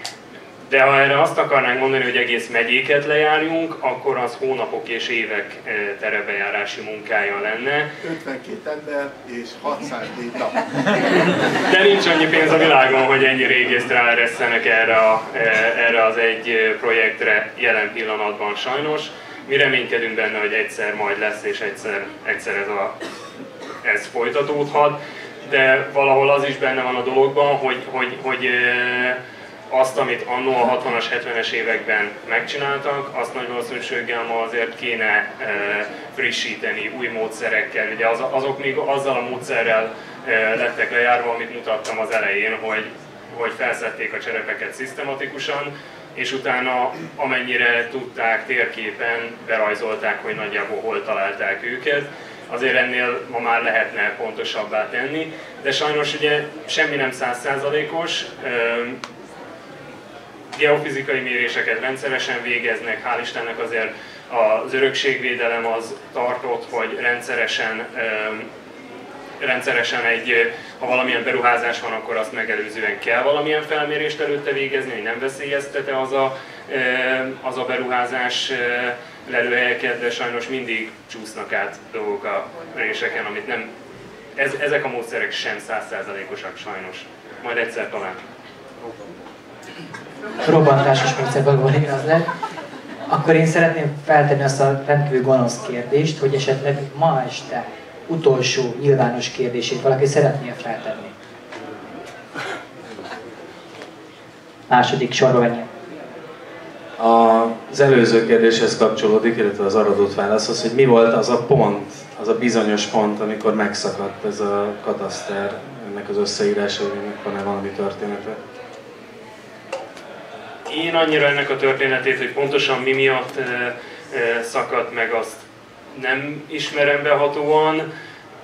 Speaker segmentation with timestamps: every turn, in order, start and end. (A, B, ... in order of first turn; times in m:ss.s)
0:00.7-0:07.9 A
0:08.0-0:10.6 B
0:11.5-0:22.9 A
0:23.8-0:29.2 A
0:29.7-0:59.0 A
1:00.5-1:08.5 A
1:09.4-1:23.7 A
1:24.4-1:28.2 A
1:30.4-1:32.3 C
1:33.1-1:41.1 C
1:44.7-1:45.7 C
1:47.0-1:58.4 D
2:00.7-2:07.9 A